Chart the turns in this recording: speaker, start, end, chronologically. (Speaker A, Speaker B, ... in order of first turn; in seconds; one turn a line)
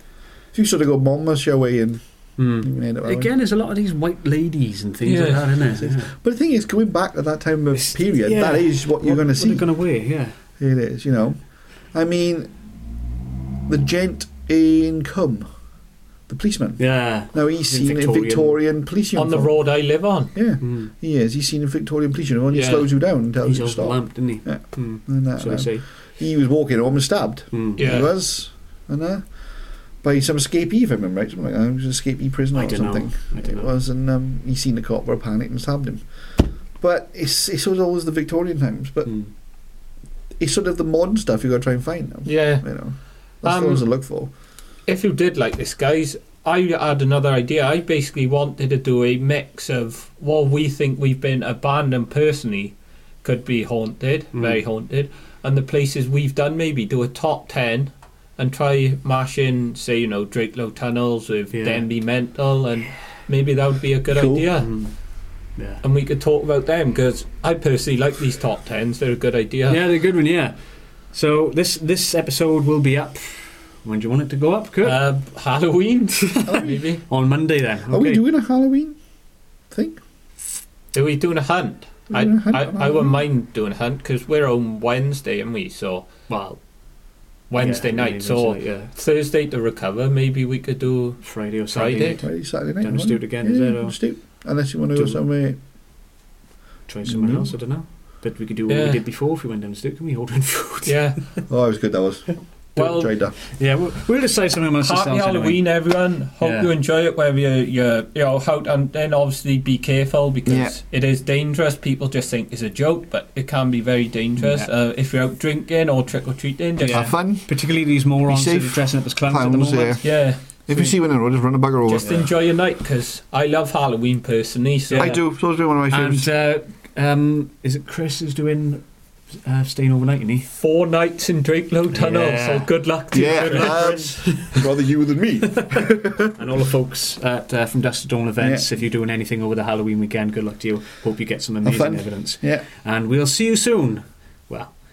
Speaker A: 0.5-2.0
Speaker B: 2.4-6.1
Speaker A: 2.6-3.3
Speaker C: 5.0-5.5
Speaker A: 5.8-9.7
Speaker B: 7.7-10.4
Speaker A: 10.6-11.4
Speaker A: 11.9-12.5
Speaker A: 13.7-15.5
Speaker A: 16.3-19.5
Speaker B: 16.8-18.6
Speaker C: 19.1-20.3
Speaker A: 20.3-29.3
Speaker B: 20.6-20.9
Speaker C: 22.5-22.9
Speaker B: 23.4-25.9
Speaker B: 27.5-27.9
Speaker C: 27.8-28.1
Speaker A: 30.0-39.1
Speaker B: 32.5-33.7
Speaker B: 39.1-39.3
Speaker A: 40.4-44.3
Speaker C: 42.2-42.8
Speaker C: 43.4-43.8
Speaker C: 44.9-64.7
Speaker B: 54.3-54.6
Speaker B: 61.5-61.9
Speaker A: 64.1-64.5
Speaker B: 64.6-64.9
Speaker B: 65.6-65.8
Speaker C: 65.8-69.8
Speaker B: 69.7-70.6
Speaker B: 71.1-75.0
Speaker C: 74.8-77.0
Speaker B: 76.4-78.2
Speaker A: 76.5-76.8
Speaker A: 77.9-79.0
Speaker A: 79.7-80.0
Speaker C: 80.9-86.1
Speaker A: 82.1-83.2
Speaker B: 86.3-86.6
Speaker C: 87.5-92.2
Speaker B: 87.6-88.9
Speaker B: 91.2-94.0
Speaker A: 92.2-95.6
Speaker B: 94.9-95.2
Speaker B: 96.9-101.0
Speaker A: 97.0-97.5
Speaker C: 98.7-99.0
Speaker C: 100.9-101.4
Speaker A: 101.5-103.4
Speaker C: 102.8-103.1
Speaker B: 103.5-105.6
Speaker C: 104.8-117.1
Speaker B: 106.4-106.7
Speaker A: 110.5-110.8
Speaker B: 114.4-114.7
Speaker B: 116.8-120.1
Speaker A: 116.9-117.5
Speaker A: 118.2-122.3
Speaker C: 120.0-120.9
Speaker C: 121.8-125.2
Speaker B: 124.9-125.2
Speaker A: 125.0-126.3
Speaker B: 125.9-130.5
Speaker C: 130.5-134.6
Speaker B: 131.9-134.1
Speaker A: 133.1-136.3
Speaker B: 136.2-144.7
Speaker A: 138.4-138.7
Speaker A: 141.6-142.7